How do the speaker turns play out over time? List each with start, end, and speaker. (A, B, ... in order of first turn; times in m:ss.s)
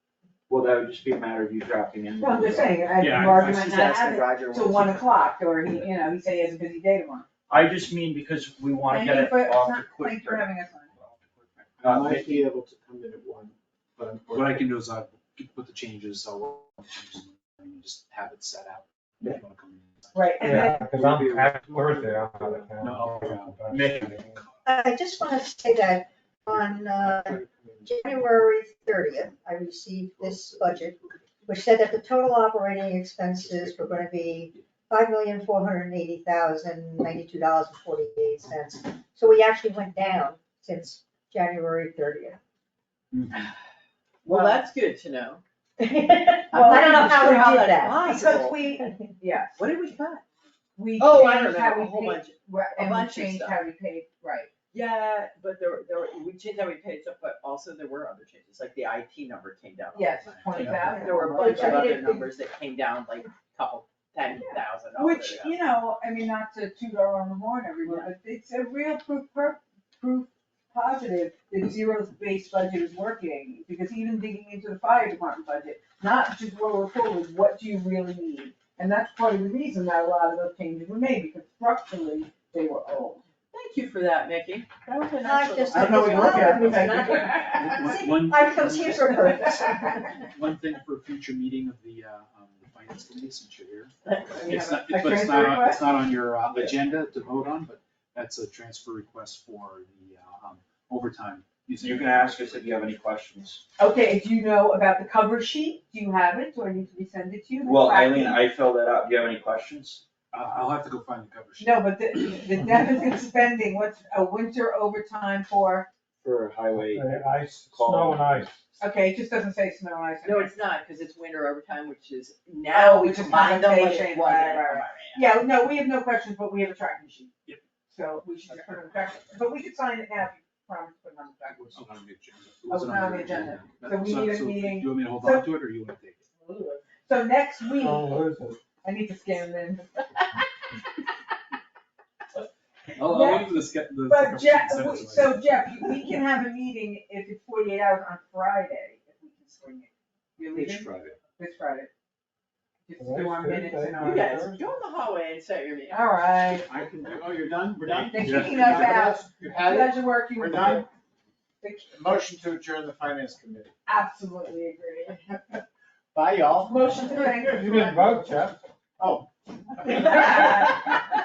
0:00.5-0:02.9 A
0:02.2-0:07.3 B
0:03.0-0:03.7 C
0:03.4-0:05.3 D
0:07.5-0:12.4 A
0:08.9-0:10.9 B
0:11.8-0:14.7 E
0:14.3-0:20.4 C
0:20.1-0:20.9 B
0:20.4-0:24.4 F
0:20.4-0:22.8 E
0:22.8-0:24.1 C
0:24.7-0:42.4 G
0:26.5-0:28.3 E
0:30.2-0:31.5 E
0:33.4-0:34.1 E
0:43.1-0:43.5 C
0:44.2-0:45.4 D
0:44.3-0:44.6 B
0:45.8-0:48.1 G
0:46.5-0:46.9 B
0:46.5-0:48.6 D
0:48.0-0:49.6 B
0:48.8-0:49.1 G
0:49.6-0:50.2 D
0:50.8-0:54.5 B
0:51.0-0:53.6 D
0:54.7-1:05.6 D
0:59.9-1:02.2 B
1:00.5-1:01.6 E
1:00.9-1:02.2 G
1:04.4-1:23.2 B
1:23.5-1:27.8 D
1:25.2-1:30.3 G
1:25.7-1:26.9 B
1:26.7-1:29.0 C
1:30.2-1:36.5 C
1:34.1-1:34.4 D
1:34.4-1:35.9 B
1:36.5-1:36.8 A
1:36.5-1:37.2 E
1:37.2-1:42.7 C
1:41.8-1:43.7 A
1:43.8-1:48.4 B
1:47.6-1:50.0 A
1:50.3-1:51.8 C
1:51.6-1:55.9 B
1:56.2-1:58.5 A
1:56.8-1:58.6 F
1:58.8-2:00.6 B
2:00.2-2:05.3 D
2:02.7-2:07.3 B
2:07.9-2:11.8 B
2:11.6-2:12.7 E
2:11.8-2:16.2 C
2:12.7-2:15.5 B
2:16.4-2:18.2 B
2:17.8-2:18.6 F
2:18.8-2:19.9 B
2:23.0-2:25.6 C
2:23.0-2:31.9 B
2:30.5-2:31.2 E
2:32.9-2:34.3 B
2:33.0-2:34.6 F
2:34.0-2:36.0 D
2:35.9-2:36.7 B
2:36.7-2:40.9 E
2:38.1-2:40.9 B
2:41.6-2:41.9 B
2:41.9-2:43.7 E
2:43.9-2:45.2 B
2:45.2-2:47.5 E
2:46.7-2:48.6 B
2:47.4-2:48.6 F
2:49.0-2:49.3 E
2:49.8-2:51.0 B